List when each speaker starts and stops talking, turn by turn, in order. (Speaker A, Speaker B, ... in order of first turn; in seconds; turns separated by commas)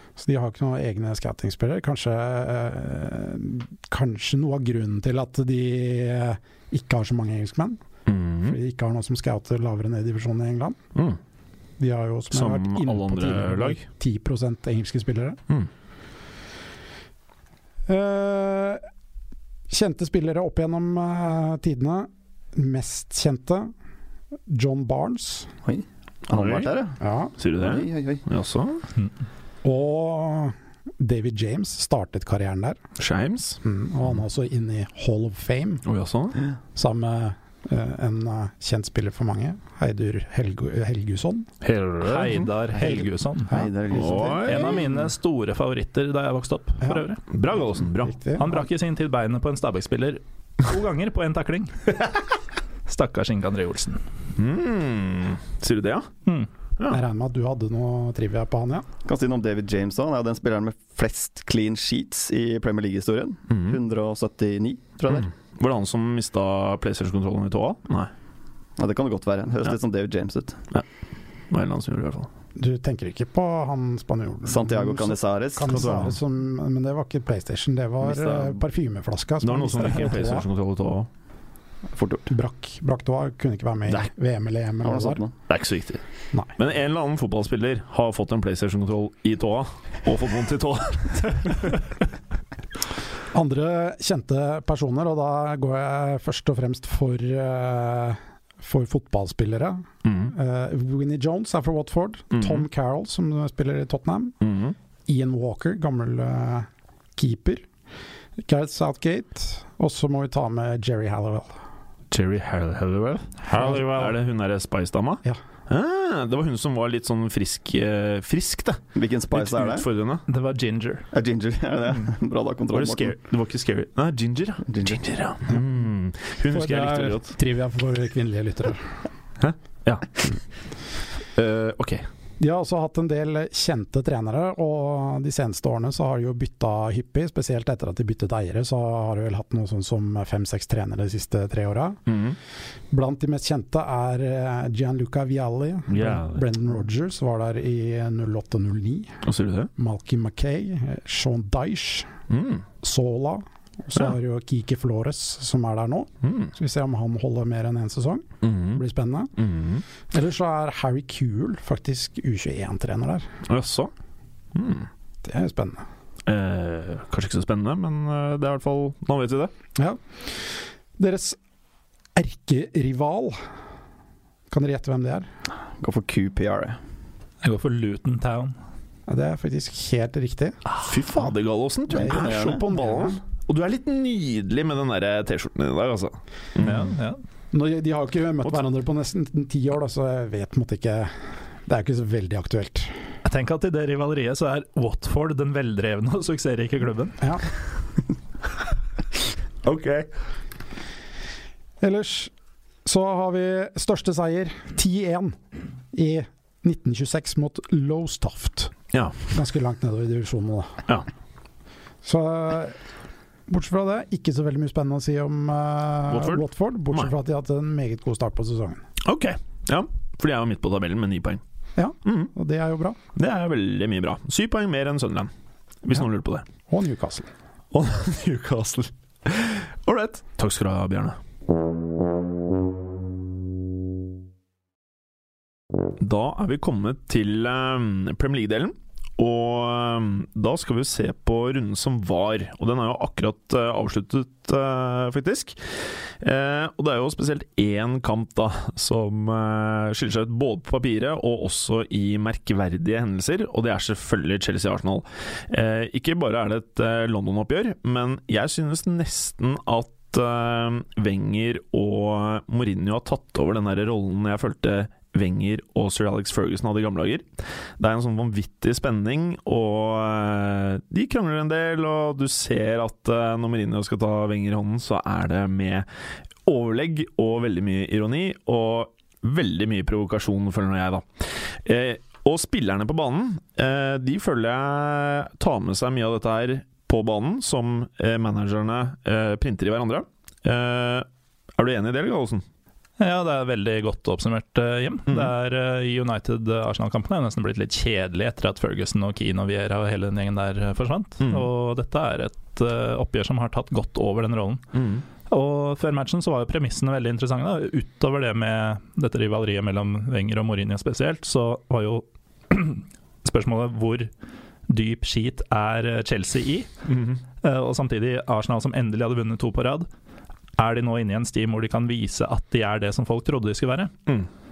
Speaker A: 0.2-7.8, Speaker B: 8.1-8.6, Speaker A: 8.4-10.8, Speaker A: 11.8-15.4, Speaker B: 12.3-13.8, Speaker A: 17.9-18.8, Speaker A: 19.7-23.7, Speaker A: 24.5-25.5, Speaker C: 25.6-27.0, Speaker B: 26.3-26.7, Speaker A: 27.0-27.3, Speaker B: 27.4-28.8, Speaker C: 27.6-28.2, Speaker A: 29.6-32.8, Speaker B: 33.0-33.6, Speaker A: 33.6-35.8, Speaker B: 35.8-36.4, Speaker A: 36.7-41.5, Speaker B: 41.6-42.5, Speaker D: 42.0-43.5, Speaker C: 42.8-44.7, Speaker A: 42.8-44.5, Speaker B: 43.9-44.9, Speaker D: 44.4-47.2, Speaker B: 47.3-48.1, Speaker A: 47.9-48.7, Speaker D: 48.4-52.0, Speaker D: 52.9-54.0, Speaker B: 54.4-56.1, Speaker A: 56.9-58.9, Speaker C: 59.0-65.3, Speaker B: 63.5-63.8, Speaker B: 65.1-68.1, Speaker C: 68.8-70.6, Speaker B: 71.5-72.3, Speaker A: 72.5-80.5, Speaker C: 74.5-76.0, Speaker B: 75.7-76.2, Speaker C: 78.0-78.5, Speaker B: 79.4-81.1, Speaker C: 82.0-82.2, Speaker A: 82.3-85.2, Speaker C: 84.8-85.3, Speaker B: 85.5-86.0, Speaker B: 86.6-91.8, Speaker A: 93.3-104.4, Speaker B: 100.0-100.3, Speaker B: 102.3-102.6, Speaker B: 104.4-104.7, Speaker A: 105.1-107.7, Speaker A: 108.4-111.5, Speaker B: 112.1-120.2, Speaker A: 113.5-114.0, Speaker C: 118.9-119.8, Speaker D: 120.3-121.1, Speaker C: 121.1-123.1, Speaker B: 122.7-127.3, Speaker C: 124.7-125.0, Speaker A: 126.5-128.8, Speaker B: 129.4-130.3, Speaker B: 131.3-132.1, Speaker A: 132.4-142.0, Speaker B: 142.1-142.4, Speaker A: 142.9-149.2, Speaker B: 145.9-146.5, Speaker B: 149.2-149.7, Speaker A: 149.8-152.1, Speaker B: 152.3-152.6, Speaker A: 152.8-159.3, Speaker B: 156.2-156.5, Speaker B: 158.4-158.8, Speaker B: 159.4-159.8, Speaker A: 160.1-163.3, Speaker B: 163.5-163.9, Speaker B: 164.5-164.9, Speaker A: 165.2-165.8, Speaker B: 166.2-169.5, Speaker A: 171.0-171.4, Speaker A: 172.2-173.4, Speaker A: 174.5-175.3, Speaker C: 175.8-176.8, Speaker D: 177.4-178.5, Speaker A: 179.1-180.6, Speaker B: 180.8-186.9, Speaker A: 181.9-183.2, Speaker C: 182.0-182.6, Speaker D: 186.6-187.2, Speaker A: 187.5-191.1, Speaker A: 191.7-192.9, Speaker D: 193.2-197.2, Speaker B: 199.6-200.1, Speaker A: 201.8-202.3, Speaker A: 202.8-205.4, Speaker A: 205.9-208.7, Speaker A: 209.3-210.8, Speaker A: 212.0-212.8, Speaker A: 213.5-218.8, Speaker B: 216.1-217.1, Speaker B: 219.0-221.4, Speaker A: 221.8-223.0, Speaker B: 222.0-222.3, Speaker B: 223.1-225.3, Speaker B: 225.8-226.4, Speaker A: 226.7-227.3, Speaker B: 227.7-231.2, Speaker B: 236.0-245.6, Speaker B: 246.2-267.3, Speaker B: 267.8-275.9, Speaker B: 276.4-292.4, Speaker D: 293.0-304.6, Speaker B: 295.1-295.3, Speaker B: 301.2-301.5, Speaker B: 304.7-305.0, Speaker D: 305.3-314.1, Speaker D: 314.7-316.7, Speaker B: 316.9-317.2, Speaker D: 317.4-319.9, Speaker D: 320.6-323.9